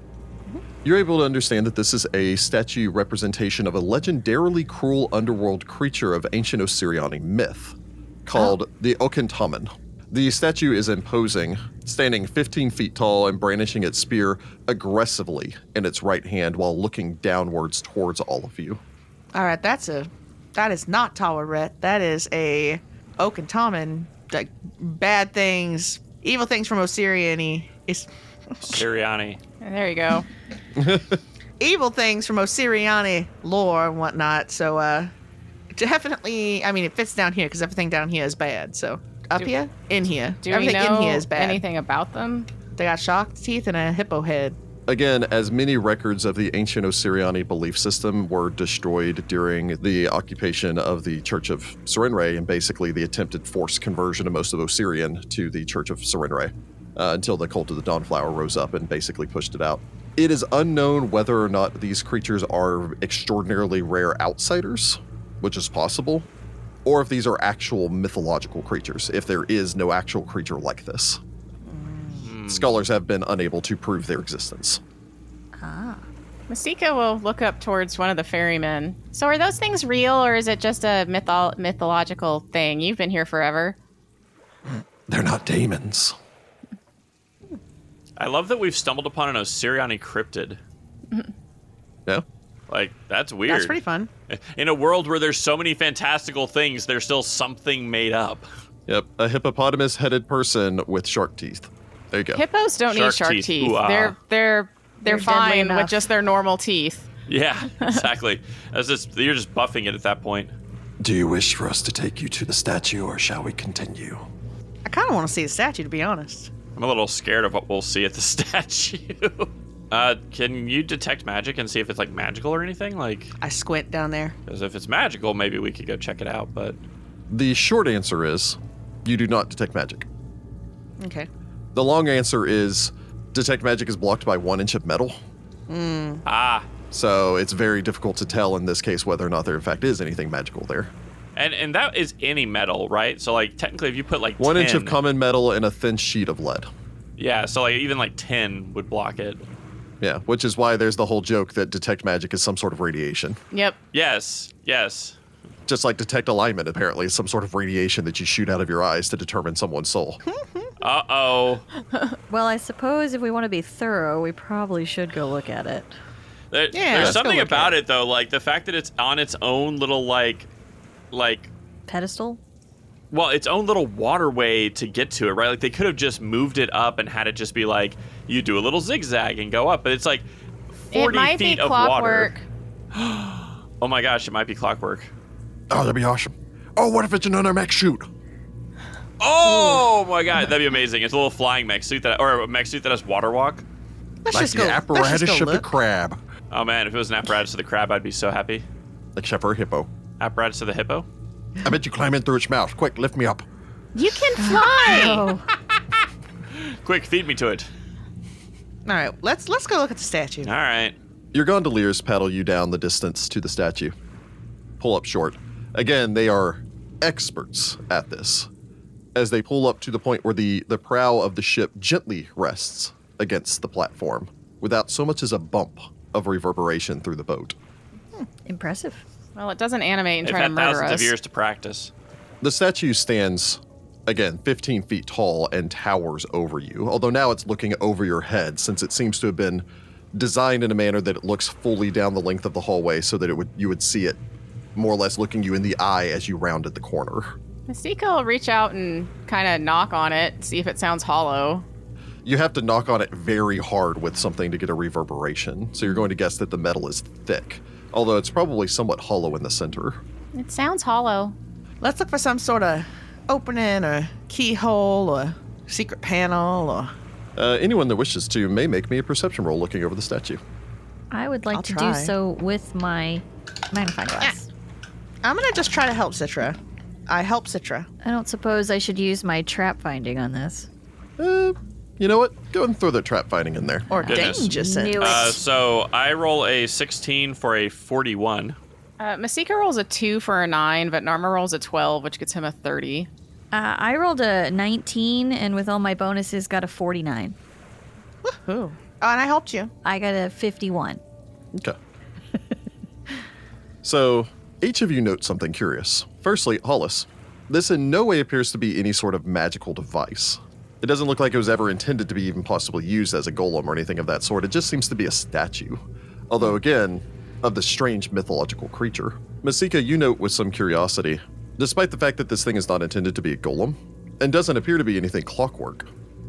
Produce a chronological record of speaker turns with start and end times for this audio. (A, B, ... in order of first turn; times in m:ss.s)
0:00.8-0:18.8 A
0:19.3-0:28.8 B
0:28.6-0:29.4 C
0:29.6-0:30.3 D
0:30.8-0:31.2 A
0:31.6-0:35.1 B
0:35.7-0:41.6 B
0:40.4-0:42.5 D
0:42.8-0:44.6 B
0:44.9-1:06.3 A
1:06.8-1:11.2 A
1:11.8-1:12.2 B
1:12.2-1:12.7 C
1:12.4-1:14.8 A
1:15.6-1:16.0 E
1:16.5-1:23.8 D
1:25.1-1:26.2 A
1:28.2-1:30.6 C
1:32.7-1:38.5 C
1:33.5-1:34.1 B
1:38.9-1:42.4 A
1:42.3-1:47.1 D
1:42.9-1:44.2 C
1:45.1-1:46.0 E
1:47.3-1:50.5 C
1:51.0-1:54.3 A
1:54.8-1:56.5 B
1:56.8-2:03.3 C
2:03.4-2:04.4 B
2:04.5-2:06.8 C
2:07.3-2:10.1 A
2:11.0-2:11.3 B
2:11.8-2:15.2 A
2:15.7-2:16.2 B
2:16.2-2:16.7 C
2:16.9-2:20.9 A
2:21.4-2:25.0 C
2:24.4-2:26.7 A
2:27.2-2:29.4 C
2:30.0-2:33.4 A
2:33.5-2:33.8 D
2:33.9-2:35.2 C
2:35.7-2:40.2 A
2:40.3-2:40.7 B
2:40.8-2:41.7 C
2:42.3-2:45.9 E
2:46.5-2:50.5 C
2:46.7-2:47.8 B
2:46.9-2:47.2 A
2:51.1-2:51.5 C
2:51.9-2:52.4 E
2:53.1-3:00.3 C
3:00.9-3:02.3 C
3:00.9-3:02.4 D
3:02.9-3:05.1 C
3:05.7-3:08.1 A
3:09.2-3:13.6 C
3:14.3-3:15.7 B
3:14.3-3:16.2 A
3:16.5-3:18.6 C
3:19.2-3:19.9 A
3:20.2-3:21.1 C
3:21.6-3:23.4 A
3:24.0-3:25.3 B
3:24.4-3:25.5 E
3:26.5-3:27.7 C
3:28.9-3:30.5 B
3:30.4-3:31.0 C
3:31.3-3:33.9 A
3:34.8-3:38.5 A
3:39.2-3:47.6 A
3:48.5-3:49.0 E
3:49.4-3:51.1 D
3:50.2-3:51.9 C
3:52.4-4:04.2 A
4:04.8-4:07.3 A
4:07.7-4:11.6 D
4:12.2-4:20.0 A
4:20.3-4:21.4 D
4:21.8-4:26.9 B
4:27.4-4:30.4 A
4:31.1-4:34.5 E
4:31.5-4:32.1 B
4:35.2-4:37.9 B
4:38.0-4:40.7 E
4:41.2-4:43.9 A
4:43.9-4:45.4 B
4:44.0-4:45.4 E
4:44.1-4:48.6 C
4:49.0-4:53.1 D
4:53.5-4:57.4 E
4:58.2-4:59.7 B
4:59.8-5:01.0 E
5:03.8-5:25.9 A